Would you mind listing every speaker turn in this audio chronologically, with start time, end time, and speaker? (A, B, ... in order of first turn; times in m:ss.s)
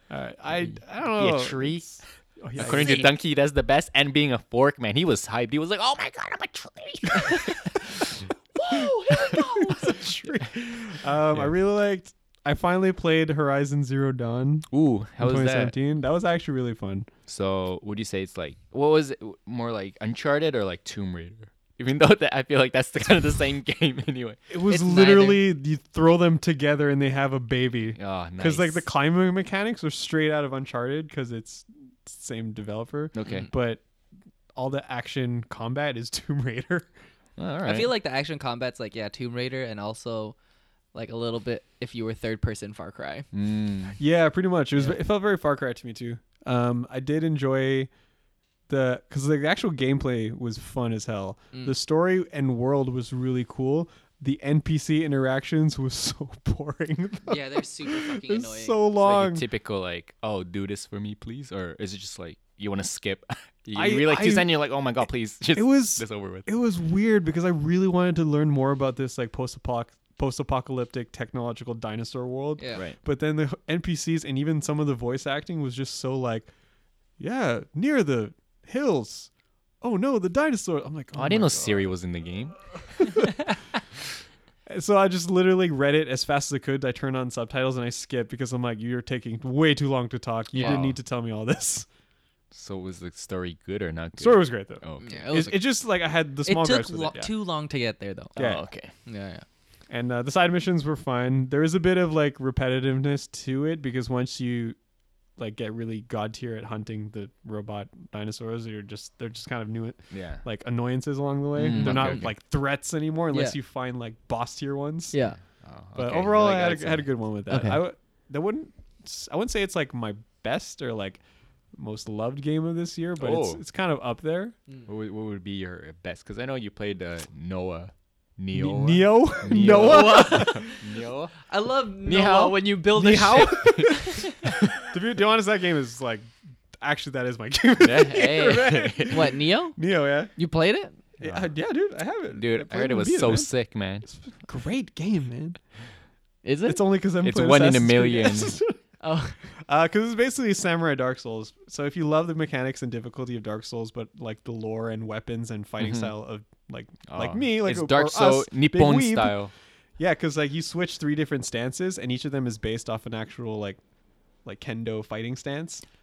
0:00.1-0:03.1 A
0:00.7-0:10.0 B
0:02.6-0:03.0 C
0:09.2-0:17.1 A
0:14.7-0:15.7 B
0:17.3-0:25.4 B
0:24.5-0:33.8 A
0:28.0-0:28.9 B
0:33.2-0:33.5 B
0:34.6-0:36.9 A
0:37.4-0:37.9 B
0:37.6-0:40.4 C
0:40.9-0:43.3 C
0:43.3-0:44.0 B
0:44.0-0:47.9 A
0:48.7-0:59.4 A
0:57.2-0:58.8 C
0:59.0-1:06.5 B
1:03.8-1:04.6 A
1:05.6-1:16.5 A
1:12.6-1:12.8 C
1:17.2-1:19.3 A
1:19.8-1:21.9 A
1:21.1-1:23.2 B
1:23.0-1:23.5 A
1:24.7-1:31.9 A
1:30.6-1:31.0 B
1:32.5-1:35.2 B
1:34.2-1:37.3 A
1:35.0-1:35.6 C
1:36.4-1:38.4 C
1:38.4-1:38.6 A
1:38.4-1:38.9 B
1:39.0-1:39.4 C
1:39.9-1:44.8 A
1:45.4-1:55.3 A
1:50.1-1:50.4 B
1:51.6-1:52.3 B
1:51.7-1:52.3 C
1:53.3-1:53.6 C
1:55.1-1:55.4 C
1:55.4-1:57.8 B
1:56.0-2:01.2 A
2:01.7-2:04.6 A
2:03.2-2:03.6 B
2:04.9-2:11.4 B
2:08.5-2:10.7 A
2:09.5-2:10.8 C
2:11.5-2:14.3 C
2:12.0-2:12.8 B
2:12.9-2:14.2 A
2:14.4-2:14.9 B
2:14.8-2:20.3 A
2:17.8-2:19.3 B
2:19.1-2:19.8 C
2:20.4-2:21.0 C
2:21.2-2:21.5 B
2:21.2-2:23.5 A
2:22.3-2:24.1 B
2:24.1-2:25.6 A
2:26.4-2:26.8 C
2:26.7-2:28.8 A
2:27.2-2:28.6 B
2:29.0-2:29.4 C
2:29.6-2:39.4 A
2:35.8-2:36.1 B
2:37.1-2:39.5 B
2:40.0-2:43.8 A
2:44.4-2:45.8 A